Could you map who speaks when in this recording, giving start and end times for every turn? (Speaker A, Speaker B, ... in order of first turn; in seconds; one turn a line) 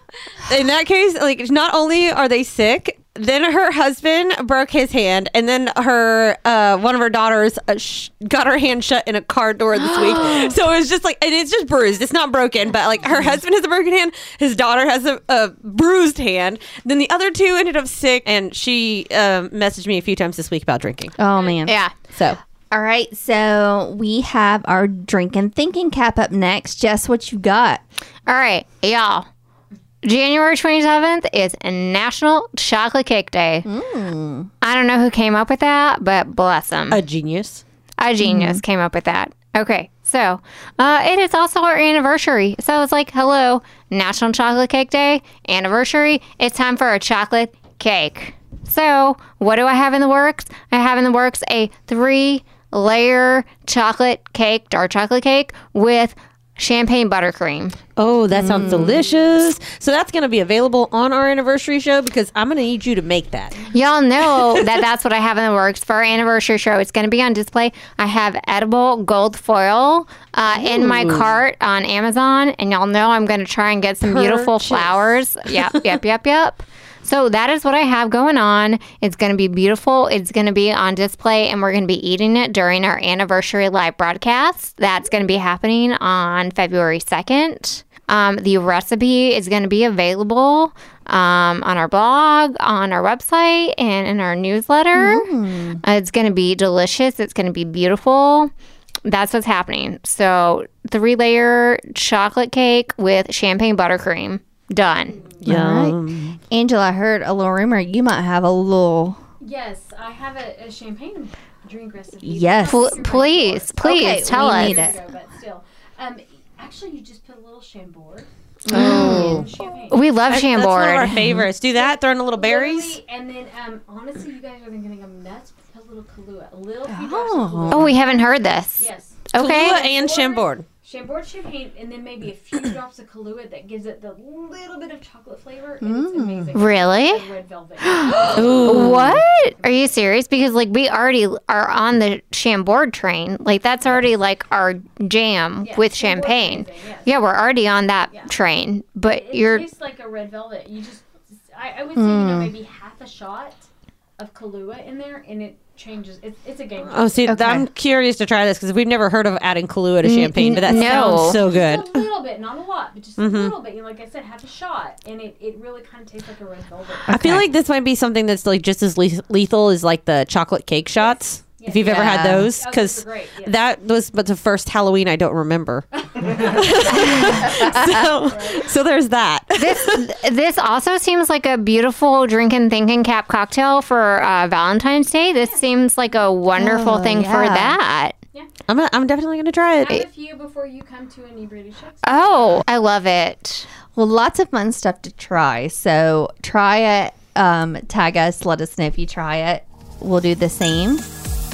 Speaker A: 0.5-21.1
Speaker B: 21.2-21.8
Speaker C: 21.6-21.9
Speaker A: 22.1-22.4
Speaker B: 22.7-27.8
Speaker C: 28.3-29.2
Speaker C: 30.0-33.7
Speaker B: 33.6-34.5
Speaker C: 34.6-37.0
Speaker A: 36.9-37.6
Speaker C: 38.0-57.8
Speaker B: 38.2-38.6
Speaker A: 58.0-63.7
Speaker B: 58.3-59.0
Speaker C: 63.7-95.3
Speaker A: 70.5-71.3
Speaker A: 74.0-75.8
Speaker B: 94.9-95.8
Speaker C: 95.8-98.5
Speaker C: 99.0-105.2
Speaker B: 105.4-106.0
Speaker A: 105.4-106.4
Speaker B: 106.5-109.2
Speaker D: 109.4-120.0
Speaker B: 112.2-113.0
Speaker C: 112.7-114.8
Speaker B: 113.8-115.0
Speaker B: 118.7-119.5
Speaker A: 118.7-119.5
Speaker C: 118.8-119.2
Speaker C: 119.9-121.2
Speaker A: 120.3-123.0
Speaker D: 121.7-139.9
Speaker B: 126.9-127.9
Speaker C: 127.7-129.8
Speaker A: 129.3-130.6
Speaker B: 135.8-136.5
Speaker C: 136.5-137.2
Speaker C: 138.2-149.6
Speaker A: 138.3-139.2
Speaker B: 138.5-139.0
Speaker D: 145.6-147.1
Speaker D: 149.0-153.7
Speaker B: 151.9-152.5
Speaker D: 154.2-157.4
Speaker A: 156.9-162.1
Speaker C: 157.3-157.7
Speaker B: 160.1-160.6
Speaker C: 160.3-161.4
Speaker D: 160.7-167.1
Speaker A: 163.2-163.5
Speaker B: 167.1-167.4
Speaker A: 167.1-180.1
Speaker D: 171.0-173.6
Speaker B: 171.8-172.4
Speaker D: 176.2-178.7
Speaker B: 177.3-178.0
Speaker C: 179.6-188.2
Speaker B: 186.5-187.8
Speaker A: 188.7-190.0
Speaker D: 189.8-192.6
Speaker C: 192.0-193.7
Speaker B: 193.9-201.1